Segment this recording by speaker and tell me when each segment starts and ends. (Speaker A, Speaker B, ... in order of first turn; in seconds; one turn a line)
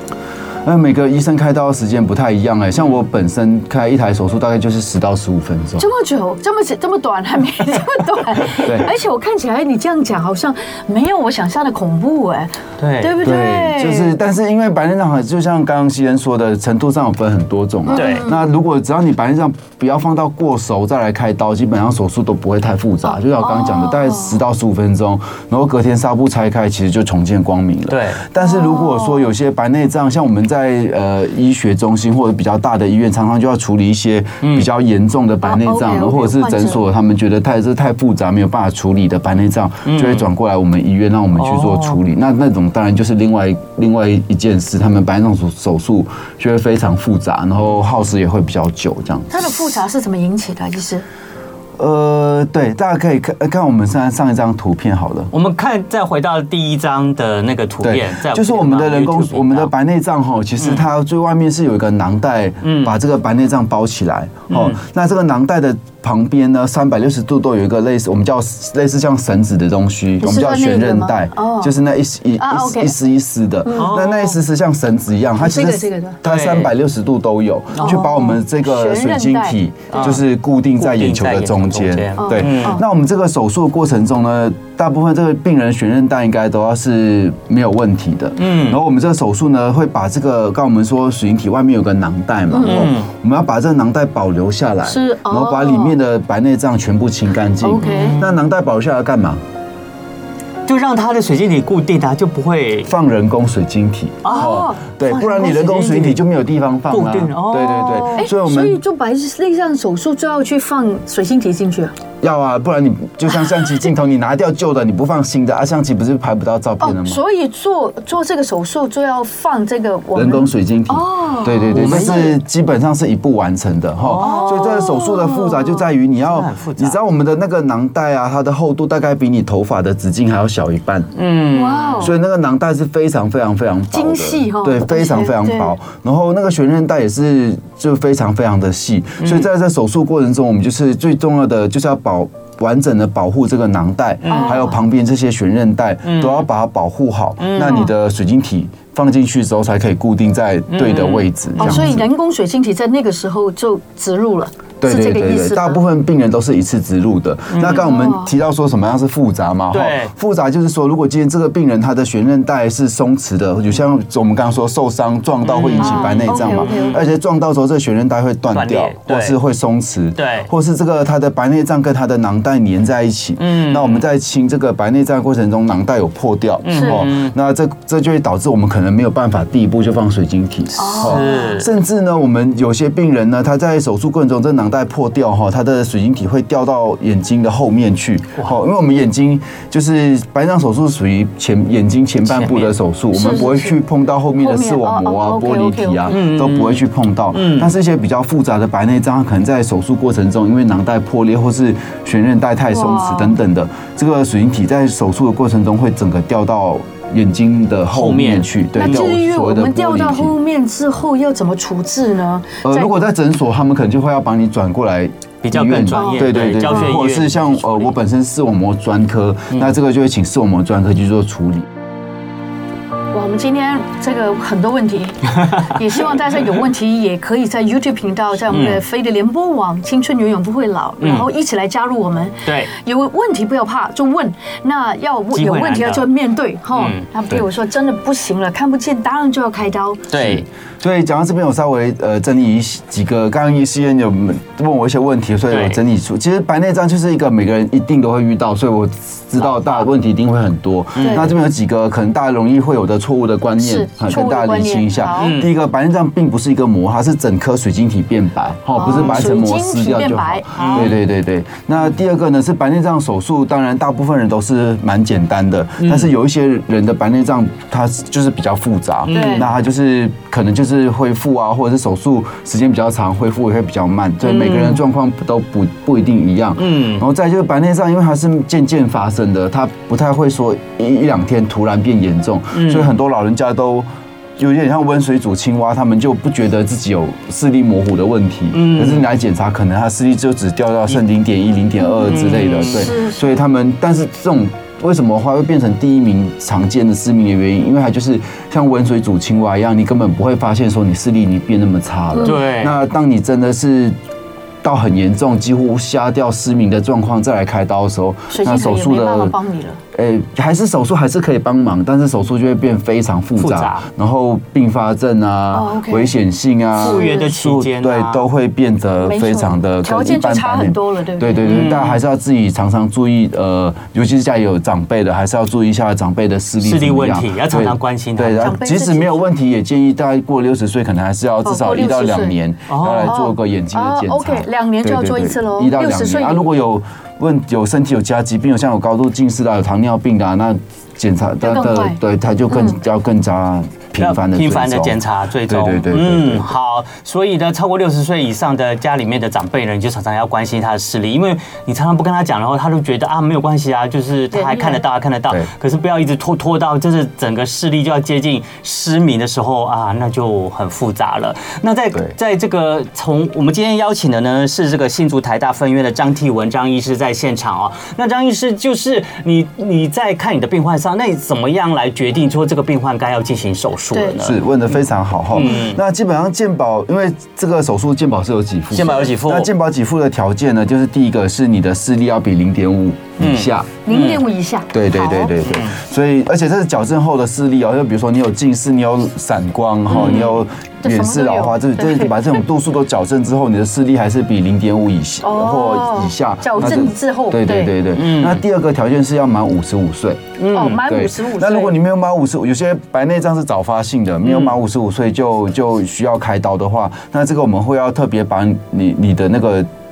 Speaker A: 0.7-5.9
Speaker B: 5.8-14.2
Speaker A: 8.6-8.9
Speaker C: 12.8-13.2
Speaker A: 13.2-49.7
Speaker B: 17.9-18.4
Speaker C: 17.9-18.3
Speaker B: 23.4-24.4
Speaker C: 27.9-28.2
Speaker B: 28.4-29.3
Speaker C: 34.4-34.7
Speaker B: 35.4-36.8
Speaker C: 39.9-40.2
Speaker C: 41.4-42.0
Speaker B: 49.3-51.0
Speaker A: 51.8-55.3
Speaker C: 55.3-59.7
Speaker A: 57.8-99.4
Speaker C: 60.6-60.9
Speaker C: 62.6-63.0
Speaker C: 64.5-64.8
Speaker B: 70.2-71.8
Speaker B: 72.4-73.0
Speaker B: 73.7-74.1
Speaker C: 73.7-74.3
Speaker B: 75.4-76.2
Speaker C: 76.2-76.7
Speaker C: 77.8-78.1
Speaker B: 77.8-80.1
Speaker C: 79.9-80.2
Speaker C: 80.8-82.8
Speaker B: 82.2-82.8
Speaker C: 88.4-88.8
Speaker B: 92.5-92.9
Speaker C: 92.6-93.1
Speaker B: 94.8-96.0
Speaker B: 97.6-98.2
Speaker C: 97.8-98.4
Speaker C: 100.7-102.9
Speaker A: 102.9-108.8
Speaker C: 104.2-106.2
Speaker B: 104.3-104.8
Speaker C: 106.9-108.2
Speaker B: 108.0-111.9
Speaker A: 112.2-117.2
Speaker B: 116.8-122.4
Speaker A: 120.2-131.1
Speaker C: 121.7-122.4
Speaker C: 124.0-124.8
Speaker B: 124.2-125.9
Speaker C: 126.2-127.0
Speaker C: 131.2-132.1
Speaker B: 131.5-132.1
Speaker A: 132.0-152.1
Speaker B: 133.9-135.8
Speaker C: 139.2-139.5
Speaker C: 144.2-144.6
Speaker B: 144.3-144.8
Speaker C: 146.0-146.5
Speaker C: 147.4-147.9
Speaker C: 150.7-151.9
Speaker B: 151.6-155.8
Speaker A: 154.8-210.4
Speaker C: 157.5-157.9
Speaker B: 157.7-158.3
Speaker C: 159.7-160.1
Speaker C: 165.4-167.1
Speaker B: 165.8-167.0
Speaker C: 168.5-169.4
Speaker C: 170.2-170.5
Speaker C: 173.4-174.1
Speaker C: 176.6-177.3
Speaker B: 176.7-177.1
Speaker B: 180.8-181.6
Speaker C: 180.9-181.7
Speaker C: 192.3-192.8
Speaker B: 193.1-193.8
Speaker B: 194.4-196.2
Speaker C: 196.1-197.8
Speaker B: 202.7-203.4
Speaker C: 207.9-209.1
Speaker B: 208.8-213.0
Speaker A: 212.6-221.7
Speaker C: 215.4-217.9
Speaker B: 215.9-217.0
Speaker B: 223.1-240.1
Speaker C: 228.5-228.8
Speaker C: 231.0-231.3
Speaker C: 232.5-232.7
Speaker C: 235.3-236.1
Speaker C: 236.7-237.1
Speaker C: 240.1-240.5
Speaker A: 240.2-283.9
Speaker C: 245.5-245.8
Speaker B: 249.4-249.8
Speaker C: 251.0-251.3
Speaker B: 251.0-251.3
Speaker B: 253.6-255.3
Speaker C: 255.2-255.5
Speaker B: 258.8-260.9
Speaker C: 258.9-259.3
Speaker C: 260.6-261.0
Speaker C: 265.8-266.1
Speaker C: 269.1-269.5
Speaker B: 269.1-269.4
Speaker C: 274.2-274.8
Speaker C: 276.6-277.0
Speaker C: 282.5-282.9
Speaker A: 284.4-304.0
Speaker C: 288.5-289.1
Speaker C: 292.1-292.9
Speaker B: 292.7-293.3
Speaker C: 302.2-302.8
Speaker A: 304.6-309.4
Speaker B: 308.3-309.8
Speaker A: 309.9-346.5
Speaker C: 313.4-313.9
Speaker B: 315.5-316.1
Speaker B: 316.8-317.3
Speaker C: 316.8-318.2
Speaker B: 319.0-321.7
Speaker C: 321.4-322.0
Speaker C: 326.6-328.5
Speaker B: 328.4-329.3
Speaker B: 331.4-332.4
Speaker C: 332.7-333.2
Speaker B: 333.0-336.5
Speaker B: 341.4-342.8
Speaker C: 344.0-374.5
Speaker B: 354.3-354.8
Speaker B: 373.9-374.2
Speaker A: 374.2-383.7
Speaker C: 375.3-375.8
Speaker C: 378.7-379.5
Speaker C: 383.2-384.2
Speaker B: 383.9-385.3
Speaker A: 384.7-409.7
Speaker C: 385.4-385.8
Speaker B: 389.9-392.4
Speaker C: 389.9-390.3
Speaker B: 395.2-397.7
Speaker C: 397.9-398.4
Speaker C: 400.4-400.8
Speaker B: 400.5-401.8
Speaker C: 404.2-404.6